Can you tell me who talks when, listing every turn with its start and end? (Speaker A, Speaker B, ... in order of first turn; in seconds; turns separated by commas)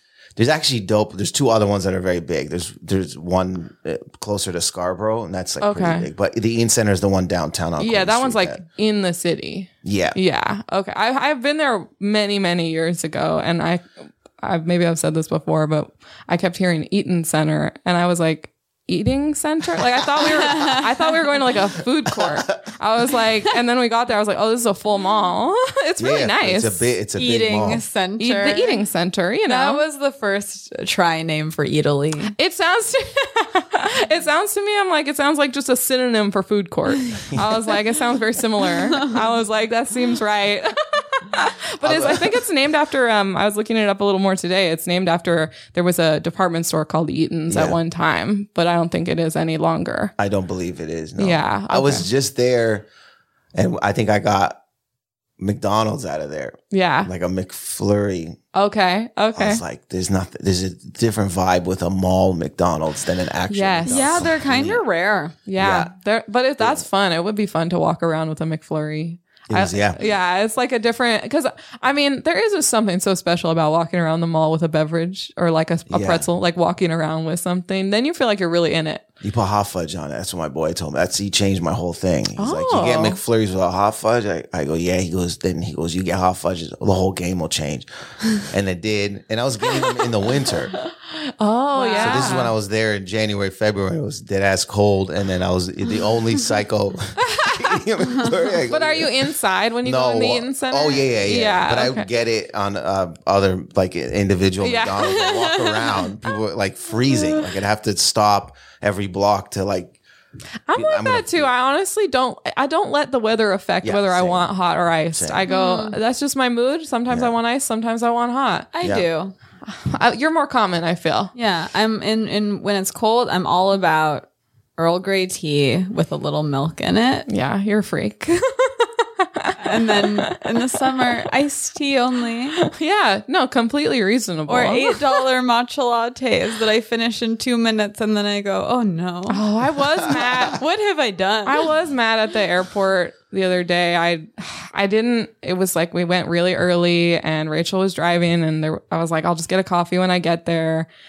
Speaker A: 0.4-8.6, Speaker B: 5.6-6.1, Speaker B: 7.8-13.9, Speaker A: 9.8-10.2, Speaker B: 14.4-26.9, Speaker C: 20.2-21.1, Speaker A: 22.1-22.6, Speaker A: 26.0-27.8, Speaker C: 27.2-28.8, Speaker B: 28.2-29.8, Speaker C: 29.4-32.3, Speaker B: 32.3-50.1, Speaker C: 38.6-39.2, Speaker A: 41.8-42.4, Speaker A: 47.5-47.8, Speaker A: 50.2-52.9, Speaker B: 51.2-52.1, Speaker A: 53.5-54.6, Speaker A: 55.4-58.4, Speaker B: 56.7-57.1, Speaker B: 58.5-59.6, Speaker A: 59.4-64.8, Speaker B: 63.5-64.3, Speaker C: 63.9-65.4, Speaker B: 65.5-79.0, Speaker A: 65.6-65.9, Speaker A: 66.6-66.8, Speaker A: 69.5-70.1, Speaker A: 75.9-76.3, Speaker A: 79.2-90.7, Speaker B: 82.4-83.2, Speaker B: 89.8-90.1, Speaker B: 90.8-92.5, Speaker C: 91.7-92.5, Speaker A: 92.0-99.3, Speaker B: 97.3-97.7, Speaker B: 98.7-102.1, Speaker A: 99.8-110.0, Speaker B: 104.6-105.1, Speaker C: 105.0-106.0, Speaker B: 110.7-118.7, Speaker A: 110.7-111.5, Speaker A: 113.8-114.5, Speaker A: 115.1-115.5, Speaker C: 115.5-116.0, Speaker A: 117.1-117.3, Speaker C: 118.7-119.3, Speaker B: 119.7-121.3, Speaker C: 121.3-127.3, Speaker B: 127.3-131.1, Speaker C: 129.6-132.6, Speaker B: 132.6-135.3, Speaker C: 134.5-139.4, Speaker B: 139.3-140.6, Speaker A: 140.1-140.4, Speaker C: 140.1-141.7, Speaker B: 141.4-150.9